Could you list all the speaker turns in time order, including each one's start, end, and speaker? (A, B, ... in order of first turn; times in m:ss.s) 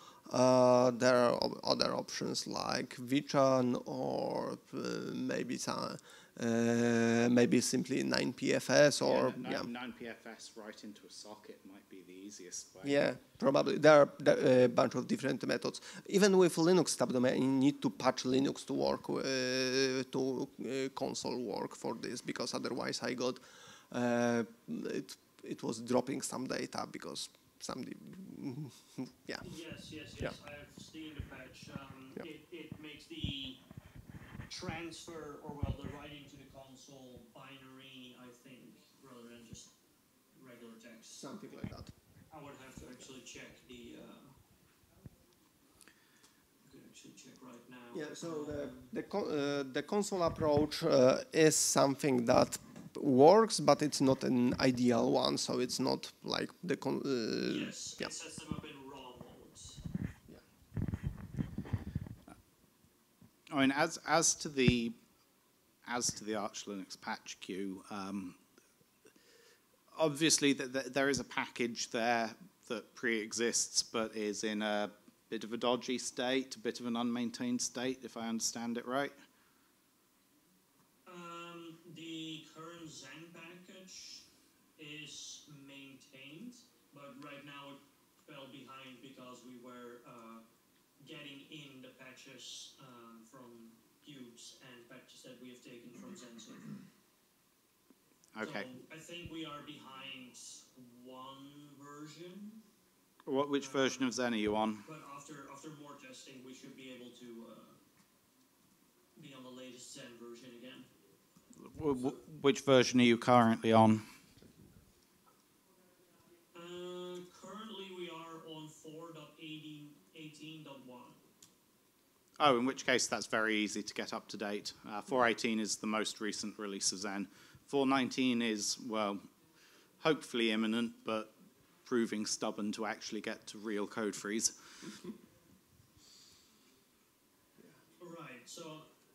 0:00.3-0:09.7 A
0:09.0-0:13.0 B
0:12.8-0:29.5 A
0:29.4-0:33.6 C
0:34.5-0:39.7 C
0:40.3-0:41.3 C
0:41.2-0:41.9 A
0:42.3-0:44.4 C
0:46.6-0:48.9 C
0:47.9-0:58.1 A
0:57.4-0:59.8 C
1:03.5-1:05.0 B
1:05.9-1:08.4 B
1:09.9-1:19.1 B
1:21.1-1:24.2 C
1:24.8-1:30.4 C
1:31.0-1:36.8 C
1:38.3-1:38.7 B
1:38.4-1:42.6 C
1:43.3-1:44.8 B
1:43.6-1:44.2 C
1:44.8-1:47.8 C
1:49.2-1:50.9 C
1:51.6-1:54.1 B
1:54.4-1:54.7 A
1:56.5-2:01.2 C
2:02.4-2:09.3 B
2:10.0-2:11.3 B
2:11.9-2:14.5 B
2:18.0-2:18.9 C